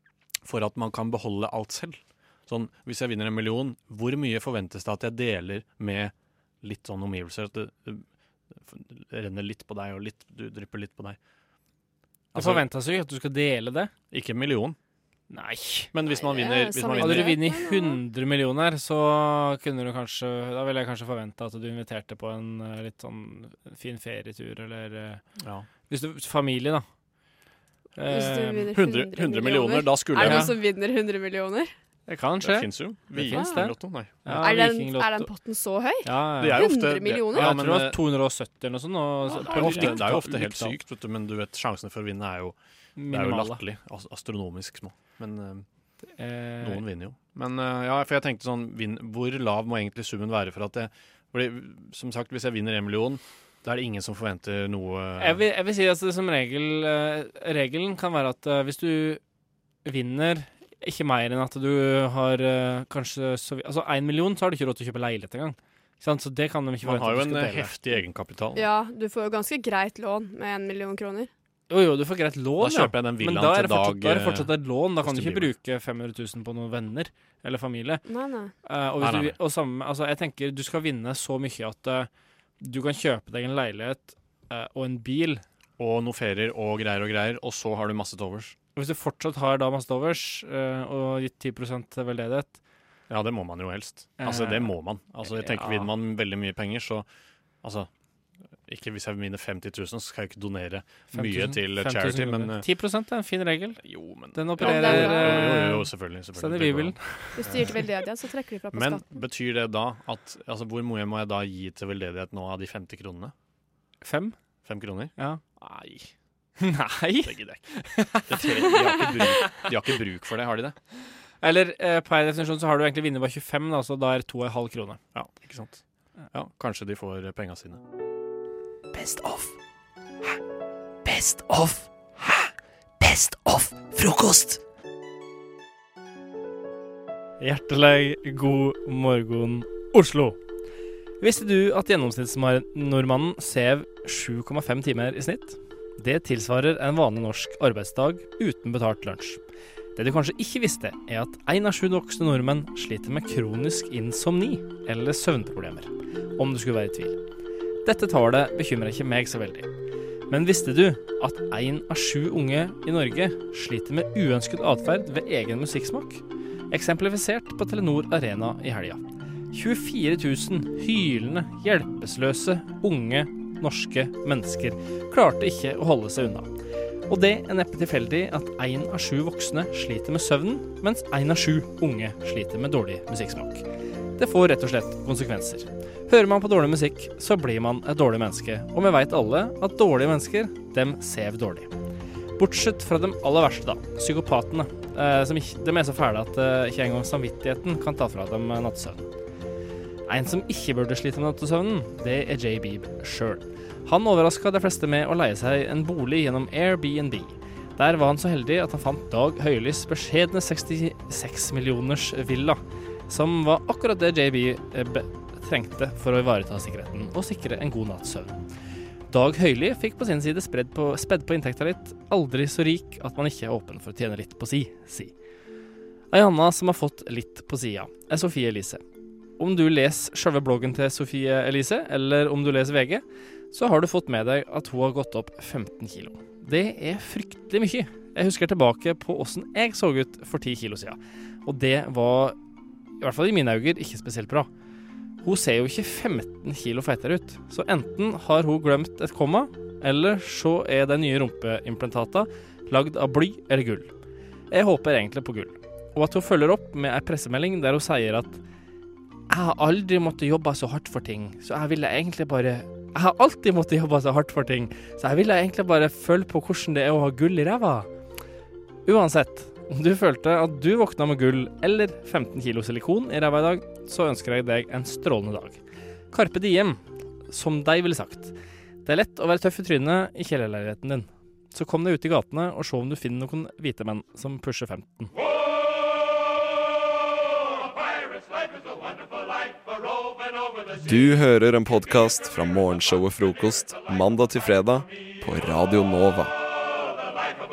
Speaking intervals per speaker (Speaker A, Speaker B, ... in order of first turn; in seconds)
Speaker A: 0.4-11.2, 12.3-12.7, 14.1-14.8, 15.9-17.4, 25.4-25.7, 28.7-30.6, 32.4-34.5, 36.4-38.0, 39.4-42.5, 43.1-45.6, 46.6-55.4, 66.8-68.7, 72.6-75.5, 79.0-79.4, 85.8-88.5, 93.1-97.0, 97.6-97.9, 98.7-102.6, 103.8-107.8, 108.7-113.3, 114.6-116.1, 117.2-117.6, 118.2-120.8, 125.1-125.8, 126.3-127.8
Speaker B: 12.3-13.9, 15.3-15.9, 16.9-25.2, 25.9-26.8, 27.9-28.7, 30.2-30.5, 32.1-35.3, 36.0-36.6, 37.3-40.8, 43.0-43.6, 46.2-46.8, 55.2-59.2, 59.8-67.8, 71.7-78.0, 78.6-85.4, 88.7-92.6, 94.2-95.9, 101.1-107.4, 114.0-114.3, 116.6-119.0, 121.4-125.0, 137.4-140.4, 141.2-149.4, 149.9-157.2, 157.8-159.7, 160.3-169.0, 169.5-176.5, 177.1-183.6, 184.2-191.7, 192.4-199.0, 200.1-218.4, 219.1-225.1, 226.1-228.8, 229.4-242.3, 243.0-244.5, 245.2-253.9, 254.5-258.4, 259.3-267.9, 268.9-275.6, 276.1-278.3, 278.8-285.1
Speaker C: 16.1-18.0, 28.0-31.7, 34.3-37.5, 39.3-40.0, 68.5-71.3, 78.0-78.5, 104.6-105.5, 107.4-109.2
Speaker D: 128.9-129.5, 131.1-132.2, 133.0-134.6
Speaker E: 290.8-296.3